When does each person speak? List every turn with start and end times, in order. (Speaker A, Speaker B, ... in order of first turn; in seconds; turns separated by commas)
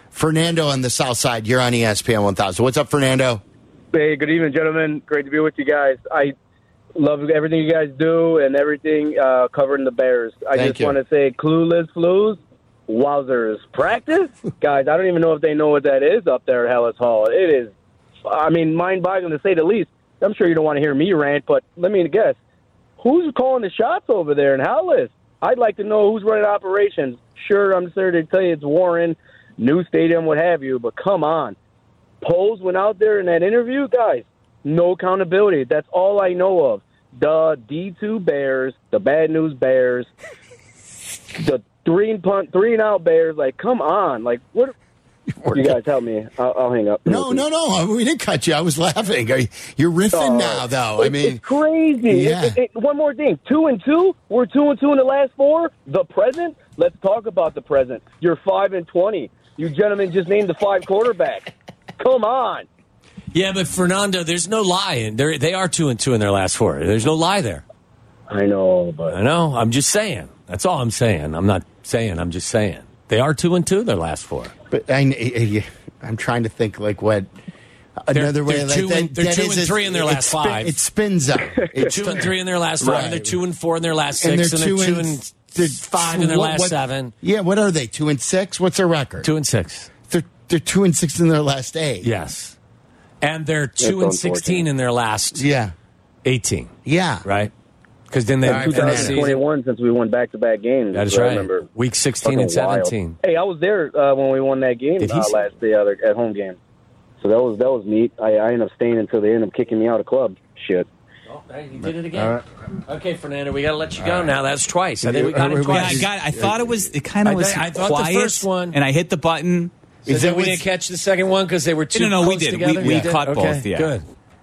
Speaker A: 0.1-3.4, Speaker B: 3.9-6.3, Speaker B: 7.0-17.7, Speaker A: 10.5-11.0, Speaker B: 18.2-22.4, Speaker B: 23.0-31.6, Speaker B: 32.2-40.1, Speaker B: 41.4-44.7, Speaker A: 45.4-45.8, Speaker B: 45.5-47.4, Speaker A: 47.0-51.4, Speaker B: 50.1-62.7, Speaker A: 52.0-52.6, Speaker C: 63.3-67.6, Speaker B: 68.3-69.2, Speaker C: 69.1-74.5, Speaker A: 74.7-77.3, Speaker A: 78.0-83.4, Speaker C: 78.1-80.8, Speaker C: 81.8-87.1, Speaker A: 84.2-89.3, Speaker C: 89.2-89.9, Speaker A: 90.1-92.1, Speaker C: 92.0-92.5, Speaker C: 93.2-95.4, Speaker B: 93.8-94.7, Speaker A: 95.3-95.8, Speaker C: 96.2-96.7, Speaker A: 96.8-97.2, Speaker C: 97.2-97.5, Speaker C: 98.1-99.4, Speaker A: 98.4-99.2, Speaker B: 98.5-101.7, Speaker C: 100.9-103.2, Speaker B: 102.2-106.6, Speaker C: 105.0-105.5, Speaker B: 107.2-110.9, Speaker C: 111.3-116.1, Speaker A: 115.0-116.1, Speaker D: 115.7-119.7, Speaker C: 117.2-118.8, Speaker A: 120.1-120.6, Speaker C: 120.1-124.0, Speaker D: 121.9-123.9, Speaker A: 122.8-123.1